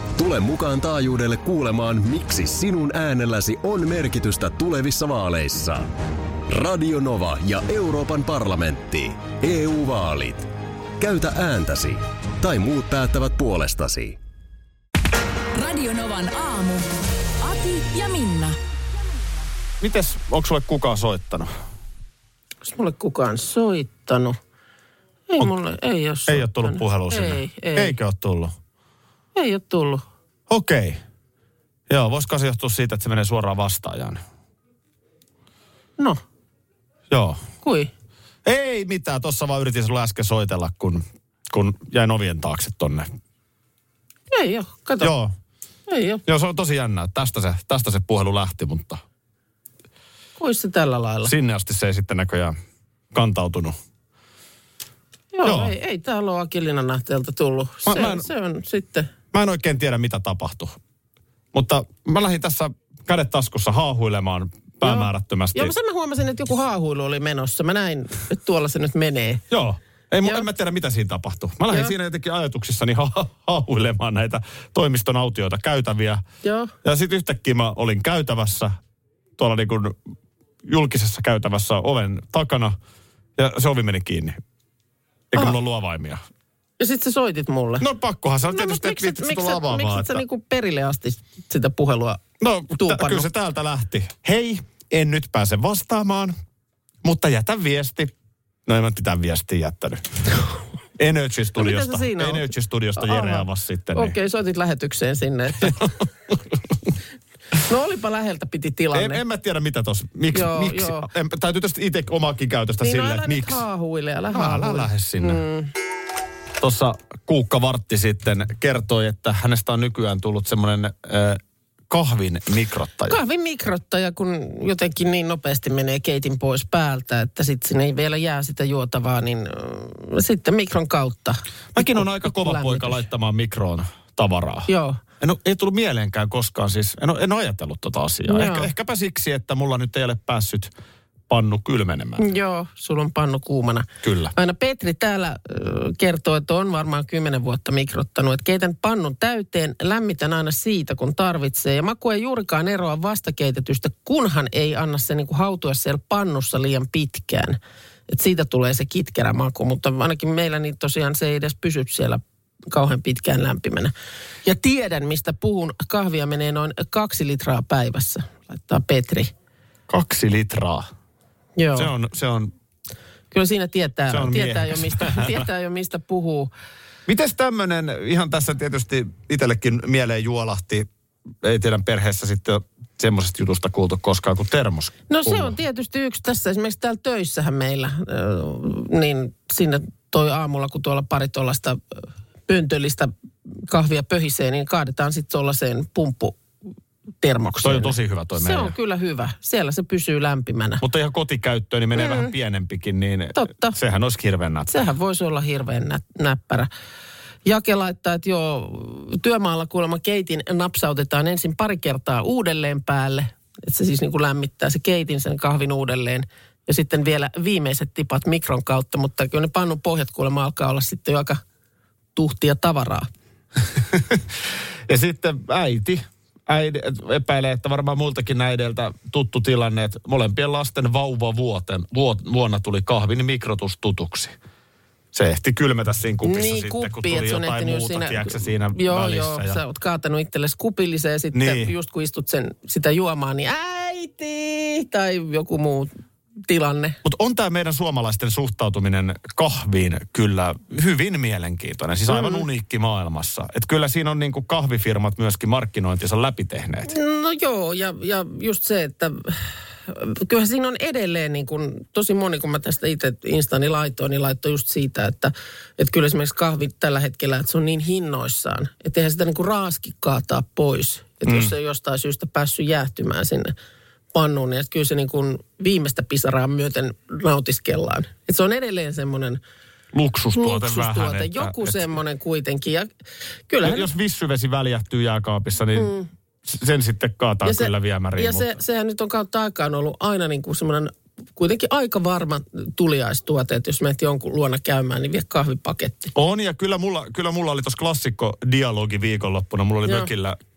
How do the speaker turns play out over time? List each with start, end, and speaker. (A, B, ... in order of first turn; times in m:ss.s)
0:00.2-0:05.9 A
0:06.5-0:10.5 A
0:11.0-0:14.2 A
0:15.5-0:16.9 B
0:17.4-0:18.6 B
0:19.8-0:21.5 C
0:22.6-0:24.4 D
0:25.3-0:28.0 D
0:26.3-0:28.5 C
0:29.3-0:30.0 D
0:30.5-0:31.0 C
0:31.9-0:34.2 C
0:37.1-0:37.4 C
0:37.6-0:37.9 D
0:38.4-0:43.1 C
0:44.3-0:45.1 D
0:45.0-0:45.3 C
0:45.9-0:46.2 D
0:46.2-0:49.0 C
0:50.4-0:51.3 D
0:51.2-0:52.6 C
0:53.1-0:53.8 C
0:55.3-0:59.1 D
0:55.4-0:55.7 C
0:57.8-0:58.3 C
0:59.3-1:00.8 C
1:01.5-1:05.7 C
1:04.8-1:09.4 D
1:09.5-1:16.2 C
1:11.7-1:11.9 D
1:16.4-1:16.7 D
1:16.8-1:18.8 C
1:19.4-1:20.1 C
1:20.6-1:22.8 C
1:23.4-1:24.4 C
1:25.3-1:26.2 C
1:26.8-1:27.8 D
1:27.8-1:30.2 C
1:28.5-1:33.3 D
1:32.4-1:36.4 C
1:37.0-1:38.1 C
1:38.6-1:40.0 C
1:41.0-1:44.1 C
1:41.6-1:45.9 D
1:45.6-1:46.4 C
1:47.6-1:49.2 D
1:48.9-1:53.6 C
1:50.3-1:51.1 D
1:52.8-1:55.7 D
1:54.3-1:55.4 C
1:56.6-2:03.2 C
2:03.1-2:13.0 D
2:11.7-2:14.7 C
2:14.7-2:15.0 D
2:15.2-2:20.7 C
2:18.3-2:18.7 D
2:21.3-2:22.3 C
2:22.2-2:43.9 D
2:24.0-2:24.3 C
2:44.4-2:49.3 D
2:49.9-2:50.9 C
2:51.6-2:51.9 D
2:51.7-2:52.5 C
2:53.3-2:56.5 D
2:54.1-2:55.4 C
2:57.0-3:00.9 C
3:01.4-3:05.6 C
3:05.1-3:16.4 D
3:17.2-3:20.8 D
3:17.6-3:18.7 C
3:20.8-3:24.7 C
3:22.0-3:22.3 D
3:23.3-3:23.8 D
3:24.7-3:26.7 D
3:27.4-3:41.4 D
3:42.1-3:43.1 D
3:43.9-3:44.2 C
3:44.9-3:54.4 C
3:55.1-3:59.6 C
3:56.2-4:05.9 D
4:01.3-4:01.7 C
4:06.5-4:07.0 D
4:07.0-4:16.9 C
4:12.1-4:12.4 D
4:16.9-4:33.5 D
4:31.2-4:31.5 C
4:34.1-4:39.4 D
4:39.9-4:41.9 C
4:40.3-4:42.9 D
4:43.5-4:43.9 D
4:43.6-4:45.9 C
4:45.7-4:46.1 D
4:46.4-4:48.6 C
4:47.4-4:56.1 D
4:56.1-5:00.4 C